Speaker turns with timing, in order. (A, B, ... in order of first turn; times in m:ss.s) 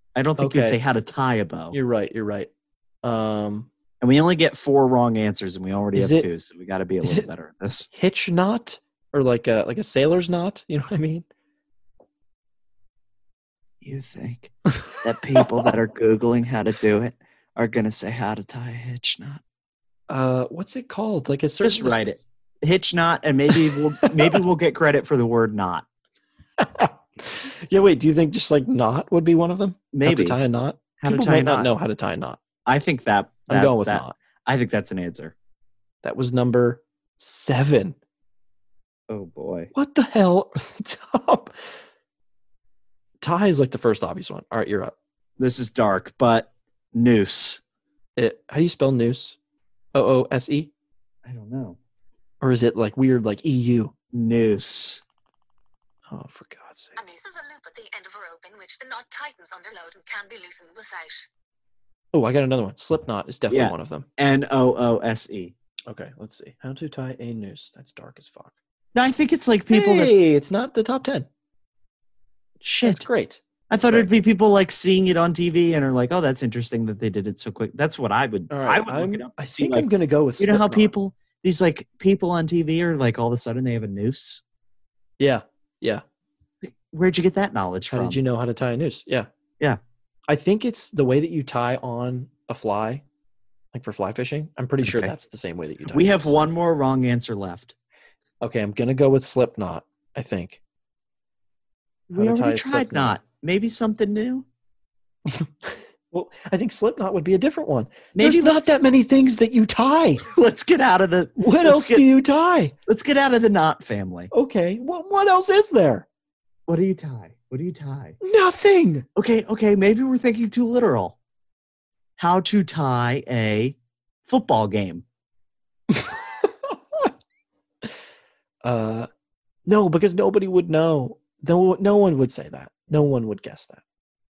0:00.2-0:01.8 A
0:00.4-0:00.8 B
0:01.7-0:02.5 B
0:03.0-0:03.7 B
0:04.0-0:07.9 A
0:05.9-0:06.3 B
0:07.9-0:11.2 B
0:13.8-0:19.4 A
0:14.9-0:15.4 B
0:20.1-0:22.1 B
0:21.6-0:25.8 A
0:23.5-0:24.4 B
0:26.6-0:32.4 B
0:29.9-0:30.4 A
0:31.0-0:31.7 A
0:32.6-0:35.3 A
0:33.5-0:34.1 B
0:36.0-0:38.0 B
0:39.1-0:39.7 A
0:39.7-0:41.6 B
0:43.2-0:44.9 B
0:45.4-0:47.6 A
0:48.2-0:49.4 B
0:49.9-0:50.7 B
0:51.2-0:51.8 A
0:52.4-0:53.9 B
0:54.1-0:55.0 A
0:56.1-0:57.0 B
0:57.0-1:01.3 C
1:02.1-1:04.1 B
1:03.5-1:05.5 A
1:05.9-1:08.5 B
1:08.9-1:10.1 A
1:09.7-1:11.3 B
1:12.6-1:13.0 A
1:12.8-1:14.2 B
1:13.7-1:19.9 A
1:18.5-1:20.9 B
1:20.4-1:24.4 A
1:25.2-1:26.0 B
1:26.6-1:28.2 A
1:27.9-1:29.3 B
1:30.3-1:33.0 B
1:33.7-1:36.4 B
1:34.8-1:35.1 A
1:35.9-1:37.7 A
1:38.4-1:40.6 B
1:42.1-1:44.5 A
1:42.1-1:43.2 B
1:45.3-1:50.2 B
1:48.1-1:48.7 A
1:50.2-1:52.1 A
1:51.4-1:52.7 B
1:52.9-1:54.3 A
1:54.3-1:56.0 B
1:56.7-1:58.2 A
1:58.2-1:59.0 B
1:59.2-2:01.2 A
2:02.2-2:05.0 A
2:08.6-2:09.1 B
2:09.6-2:13.8 B